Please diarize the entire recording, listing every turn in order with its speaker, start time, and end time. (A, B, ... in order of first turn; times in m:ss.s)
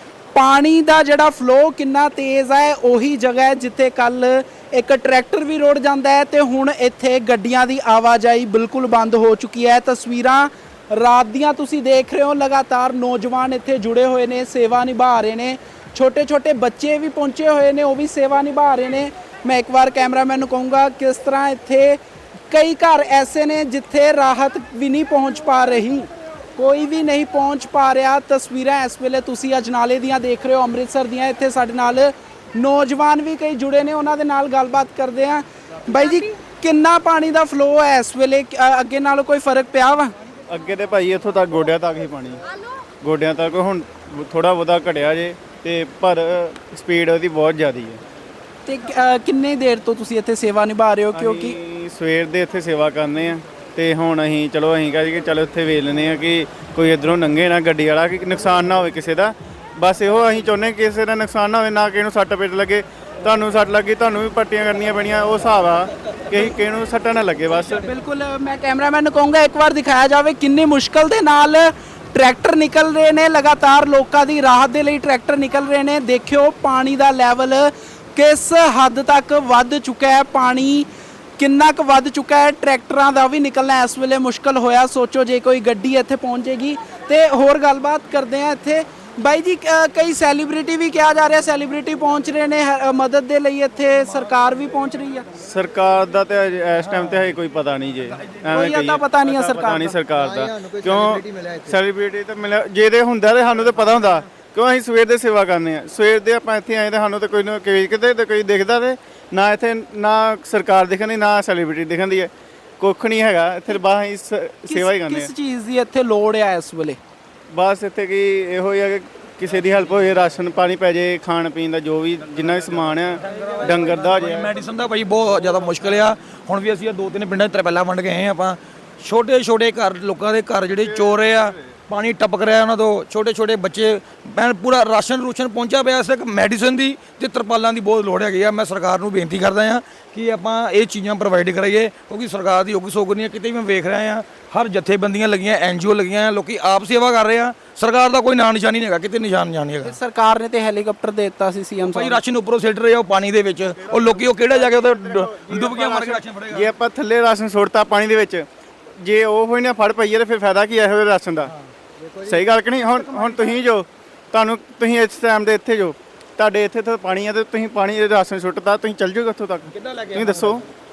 0:00.3-0:22.0 A
0:22.5-0:40.1 A
0:40.5-0:42.4 B
0:43.0-0:48.0 B
0:48.6-0:51.6 A
0:51.1-1:07.8 B
1:07.8-1:20.9 A
1:21.4-1:35.2 A
1:35.4-1:55.3 B
1:38.5-1:39.9 A
1:54.7-1:57.0 A
1:57.5-2:04.5 B
2:03.2-2:30.0 C
2:10.8-2:11.5 B
2:29.8-2:32.2 A
2:31.8-2:36.7 C
2:33.8-2:38.4 B
2:39.0-2:41.5 B
2:42.2-2:50.6 B
2:49.7-2:50.6 C